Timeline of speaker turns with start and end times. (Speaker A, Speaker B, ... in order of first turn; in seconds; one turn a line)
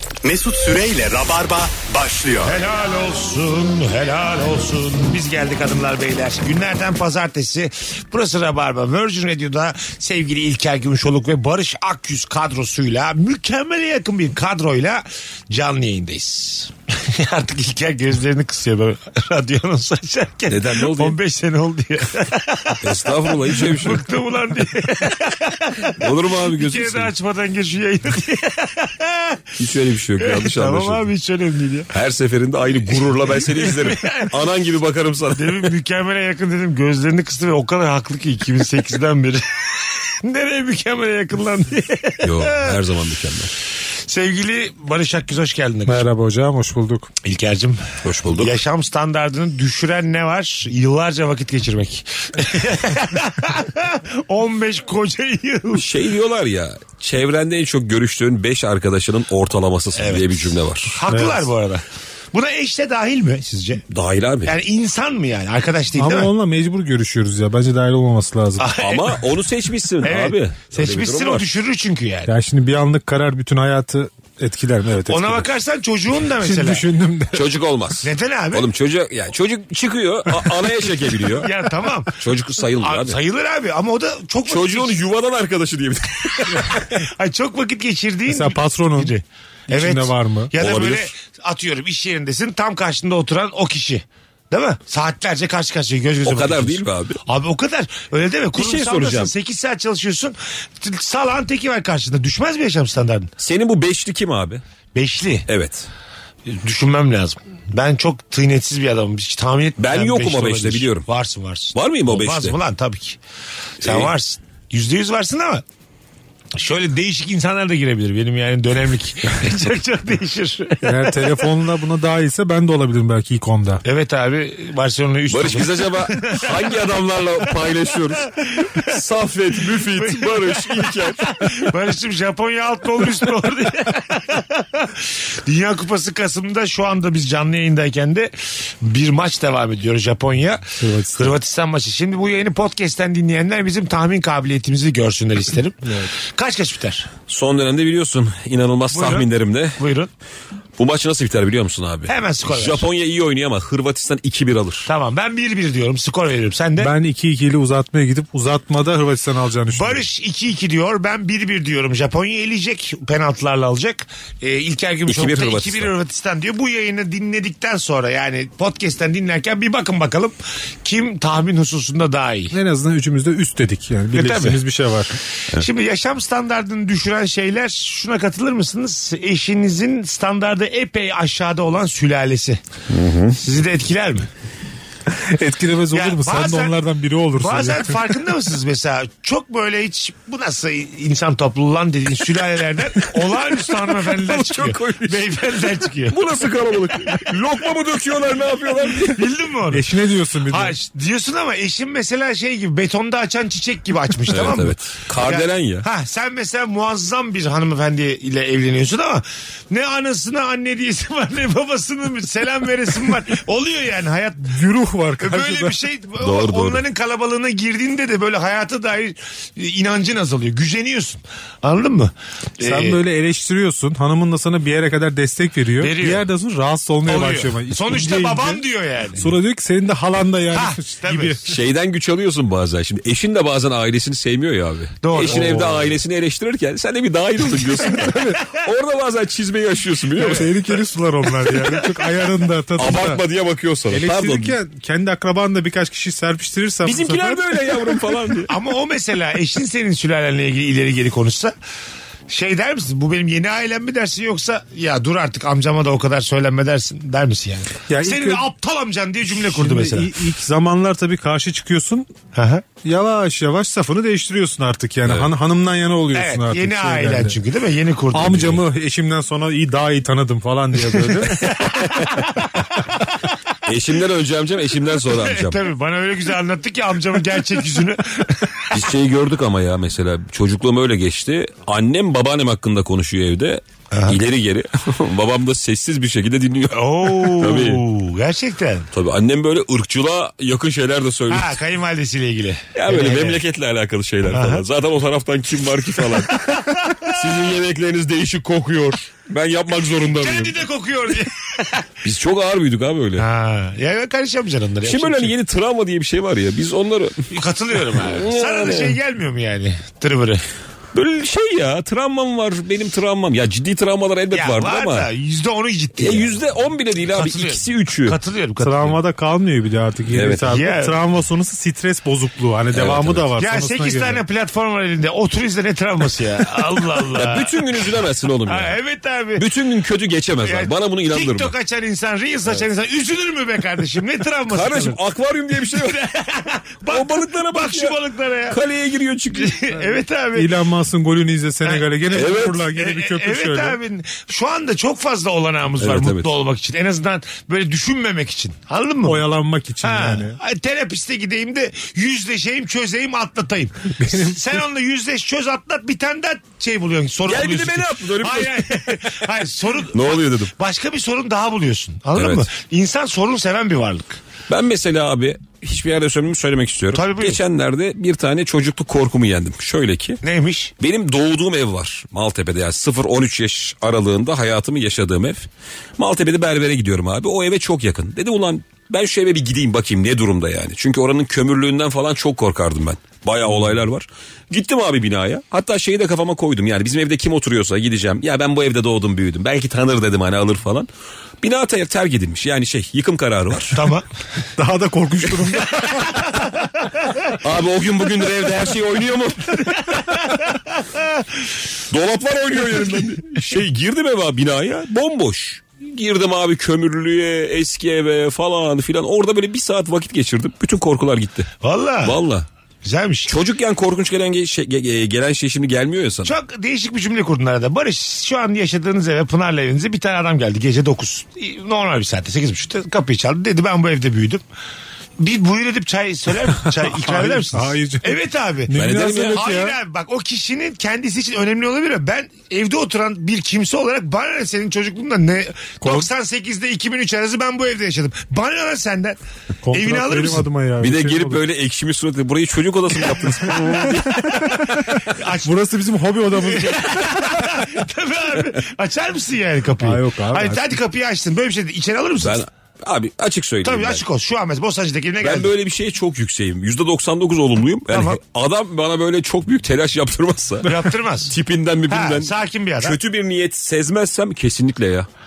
Speaker A: 0.2-2.6
Speaker B: 2.5-29.4
Speaker C: 20.5-21.2
Speaker C: 22.8-24.1
Speaker C: 26.0-27.1
Speaker C: 29.6-31.1
Speaker B: 30.2-31.9
Speaker C: 31.9-35.7
Speaker B: 33.2-34.3
Speaker B: 35.4-39.7
Speaker B: 40.2-42.7
Speaker C: 42.2-43.5
Speaker B: 44.1-46.0
Speaker D: 45.9-47.1
Speaker B: 47.2-55.9
Speaker C: 48.0-48.6
Speaker C: 55.7-61.0
Speaker B: 60.0-63.8
Speaker D: 61.1-61.5
Speaker C: 63.9-64.5
Speaker B: 64.5-66.3
Speaker D: 66.0-68.7
Speaker B: 68.6-69.3
Speaker C: 68.8-71.5
Speaker B: 70.0-72.3
Speaker D: 72.3-75.5
Speaker B: 75.1-76.8
Speaker D: 76.3-77.5
Speaker C: 77.3-81.5
Speaker B: 78.0-78.7
Speaker B: 81.4-82.2
Speaker C: 82.2-83.2
Speaker B: 82.8-85.0
Speaker C: 84.5-87.0
Speaker B: 86.8-103.3
Speaker D: 88.3-89.1
Speaker D: 89.7-90.5
Speaker C: 90.6-91.1
Speaker C: 96.2-97.2
Speaker C: 98.5-99.3
Speaker C: 103.4-104.6
Speaker B: 105.0-105.5
Speaker C: 105.5-105.9
Speaker B: 106.5-113.2
Speaker C: 109.8-111.1
Speaker C: 111.7-112.6
Speaker B: 113.8-115.6
Speaker C: 113.8-114.1
Speaker B: 116.5-121.4
Speaker D: 120.8-123.8
Speaker B: 123.8-126.8
Speaker C: 125.3-131.7
Speaker B: 128.5-128.9
Speaker B: 129.8-140.6
Speaker D: 140.8-141.4
Speaker B: 141.2-147.1
Speaker D: 145.8-146.1
Speaker C: 147.3-149.8
Speaker B: 148.9-150.1
Speaker C: 150.8-154.9
Speaker B: 152.1-152.9
Speaker B: 154.9-156.9
Speaker D: 156.8-160.1
Speaker B: 159.7-172.6
Speaker C: 165.1-165.9
Speaker D: 172.5-175.1
Speaker B: 174.1-174.6
Speaker B: 175.5-182.6
Speaker C: 182.9-183.4
Speaker B: 183.4-184.3
Speaker D: 185.1-188.2
Speaker B: 185.9-186.8
Speaker B: 187.4-196.2
Speaker C: 193.3-195.5
Speaker C: 196.1-199.3
Speaker B: 198.9-199.8
Speaker D: 199.7-200.8
Speaker B: 200.5-214.6
Speaker C: 204.3-205.9
Speaker D: 214.4-215.8
Speaker B: 215.2-223.0
Speaker C: 216.2-216.8
Speaker D: 222.6-228.6
Speaker B: 225.8-226.3
Speaker B: 227.1-229.3
Speaker D: 229.2-231.4
Speaker B: 230.5-231.4
Speaker C: 231.5-240.5
Speaker B: 235.0-235.5
Speaker D: 235.3-236.0
Speaker D: 238.0-238.4
Speaker B: 240.2-240.5
Speaker D: 240.2-243.2
Speaker C: 242.8-244.6
Speaker D: 243.9-248.0
Speaker C: 246.8-248.5
Speaker B: 248.5-251.5
Speaker B: 252.3-260.2
Speaker D: 257.9-258.5
Speaker D: 259.3-262.1
Speaker B: 262.3-262.6
Speaker D: 262.8-267.4
Speaker C: 265.1-265.3
Speaker B: 266.1-268.6
Speaker D: 268.1-271.8
Speaker B: 270.9-272.7
Speaker C: 271.6-272.1
Speaker C: 273.6-275.6
Speaker B: 275.0-278.7
Speaker C: 278.7-287.8
Speaker B: 283.9-284.2
Speaker B: 286.7-288.9
Speaker C: 288.9-291.6
Speaker B: 291.3-293.4
Speaker C: 292.7-300.6
Speaker B: 294.3-294.6
Speaker B: 296.3-297.2
Speaker B: 300.1-301.9
Speaker C: 302.0-303.3
Speaker B: 303.2-305.3
Speaker C: 304.8-307.3
Speaker B: 307.3-310.4
Speaker C: 307.9-309.0
Speaker C: 310.9-315.1
Speaker B: 314.3-316.4
Speaker C: 316.0-318.2
Speaker B: 317.1-319.0
Speaker D: 318.6-324.2
Speaker C: 320.1-320.6
Speaker B: 320.5-321.0
Speaker C: 322.7-323.2
Speaker B: 323.4-327.9
Speaker C: 326.9-328.8
Speaker B: 328.5-329.5
Speaker C: 329.4-331.5
Speaker B: 330.4-335.0
Speaker C: 334.5-336.0
Speaker B: 335.7-338.6
Speaker C: 336.9-339.6
Speaker B: 339.3-340.5
Speaker D: 340.4-343.8
Speaker B: 341.6-349.2
Speaker C: 342.1-342.6
Speaker C: 345.8-346.3
Speaker D: 349.1-350.4
Speaker B: 349.8-364.2
Speaker D: 354.0-354.6
Speaker C: 357.3-359.1
Speaker C: 359.9-360.5
Speaker C: 362.1-362.5
Speaker C: 364.5-370.2
Speaker B: 366.9-367.4
Speaker B: 370.2-370.7
Speaker C: 370.8-390.9
Speaker C: 391.4-393.9
Speaker B: 393.7-394.1
Speaker D: 394.6-396.4
Speaker B: 395.8-396.5
Speaker C: 397.4-399.8
Speaker B: 399.8-400.6
Speaker C: 401.9-411.5
Speaker B: 411.6-412.2
Speaker C: 412.0-412.5
Speaker B: 412.8-413.3
Speaker C: 413.3-416.3
Speaker B: 416.2-424.4
Speaker B: 425.2-439.2
Speaker D: 426.7-429.8
Speaker C: 428.7-429.5
Speaker D: 435.8-436.1
Speaker D: 439.6-441.4
Speaker B: 439.7-440.5
Speaker C: 440.8-444.6
Speaker D: 443.7-447.5
Speaker B: 444.8-445.6
Speaker B: 446.4-452.4
Speaker D: 449.8-450.8
Speaker C: 452.2-454.1
Speaker B: 453.6-455.5
Speaker C: 455.2-460.7
Speaker B: 457.9-458.2
Speaker B: 460.6-461.3
Speaker C: 461.3-465.1
Speaker B: 461.9-463.0